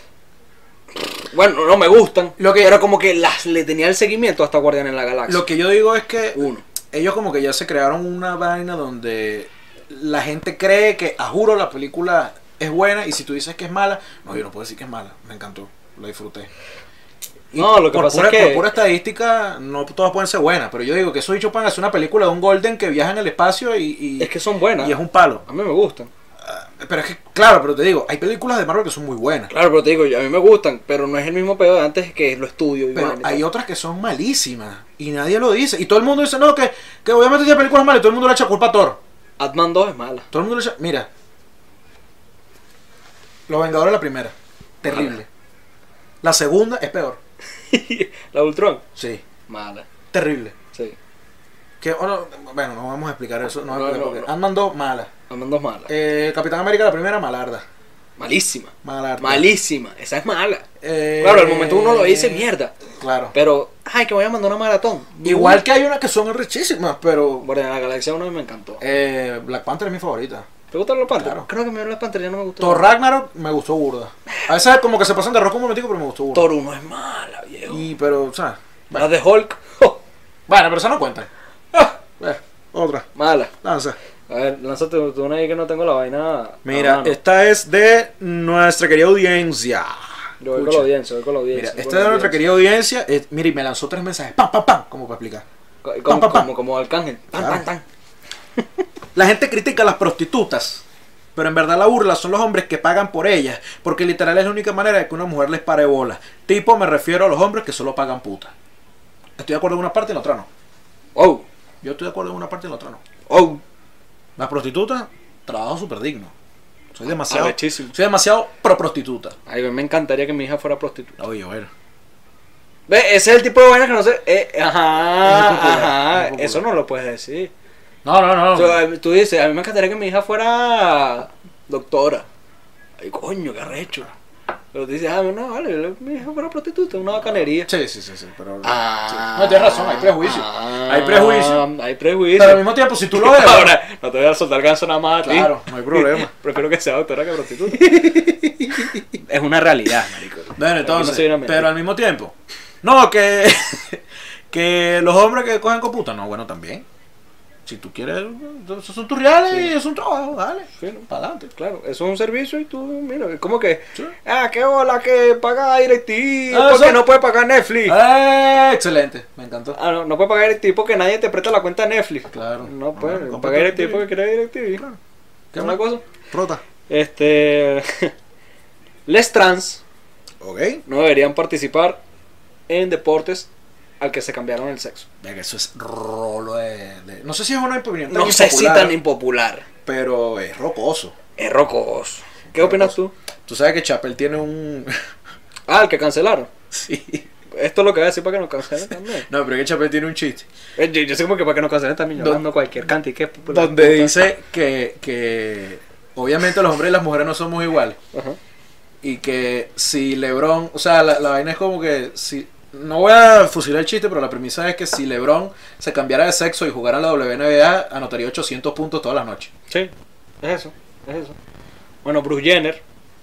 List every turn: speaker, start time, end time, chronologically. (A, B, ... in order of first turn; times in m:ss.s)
0:01.0-0:05.5 A
0:02.4-0:02.8 B
0:05.3-0:16.5 B
0:06.4-0:06.6 A
0:17.5-0:18.7 A
0:17.5-0:25.4 B
0:24.2-0:26.1 A
0:26.4-0:29.5 B
0:29.5-0:33.4 A
0:32.9-0:39.0 B
0:39.4-0:40.3 A
0:40.3-0:41.1 B
0:43.5-0:45.3 B
0:44.9-0:45.1 A
0:46.2-0:47.2 B
0:47.7-0:48.8 A
0:49.0-0:49.2 B
0:49.5-0:49.9 A
0:50.1-0:50.6 B
0:51.8-0:55.1 B
0:53.7-0:54.3 A
0:55.3-0:55.9 A
0:55.9-0:57.6 B
0:58.2-1:00.7 A
0:58.8-0:59.5 B
1:00.8-1:02.5 B
1:01.2-1:02.7 A
1:03.0-1:03.3 B
1:03.3-1:05.6 A
1:05.2-1:07.5 B
1:07.4-1:08.8 A
1:08.8-1:10.5 B
1:10.7-1:12.9 A
1:11.1-1:11.5 B
1:12.6-1:16.5 B
1:16.3-1:17.9 A
1:17.7-1:19.1 B
1:18.9-1:20.0 A
1:20.5-1:21.3 B
1:22.2-1:23.1 B
1:23.1-1:23.5 A
1:23.6-1:24.0 B
1:24.3-1:27.2 A
1:26.6-1:30.9 B
1:30.4-1:32.4 A
1:31.5-1:35.4 B
1:35.8-1:37.8 A
1:36.1-1:36.5 B
1:37.4-1:37.6 B
1:39.1-1:40.8 B
1:41.4-1:48.5 B
1:49.4-1:50.5 B
1:51.1-1:51.4 A
1:51.8-1:53.0 B
1:53.3-1:53.6 A
1:54.4-1:56.3 B
1:56.9-1:59.4 B
1:57.2-1:57.9 A
1:59.5-2:01.2 A
2:01.2-2:01.7 B
2:02.9-2:07.5 A
2:05.2-2:06.6 B
2:08.0-2:08.8 B
2:08.5-2:12.2 A
2:13.0-2:14.1 A
2:14.7-2:17.7 A
2:17.6-2:21.7 B
2:18.6-2:31.7 A
2:22.3-2:23.8 B
2:25.2-2:26.3 B
2:28.6-2:28.9 B
2:30.6-2:36.8 B
2:37.7-2:41.5 B
2:40.8-2:48.0 A
2:46.5-2:47.0 B
2:47.8-2:49.8 B
2:49.7-2:54.8 A
2:52.3-2:54.1 B
2:55.5-2:56.6 B
2:55.6-2:56.0 A
2:56.9-2:58.1 A
2:59.1-2:59.8 A
3:00.4-3:00.8 B
3:00.9-3:02.0 A
3:02.7-3:03.5 A
3:04.0-3:05.1 A
3:05.2-3:09.0 B
3:08.1-3:09.7 A
3:09.9-3:11.1 B
3:11.4-3:13.1 A
3:12.5-3:13.0 B
3:13.5-3:15.0 B
3:15.7-3:16.5 A
3:16.7-3:17.2 B
3:17.5-3:19.3 A
3:19.2-3:20.5 B
3:20.8-3:24.2 A
3:22.2-3:22.4 B
3:23.5-3:28.0 B
3:28.1-3:28.4 A
3:29.0-3:39.5 B
3:40.4-3:41.4 A
3:42.0-3:42.8 A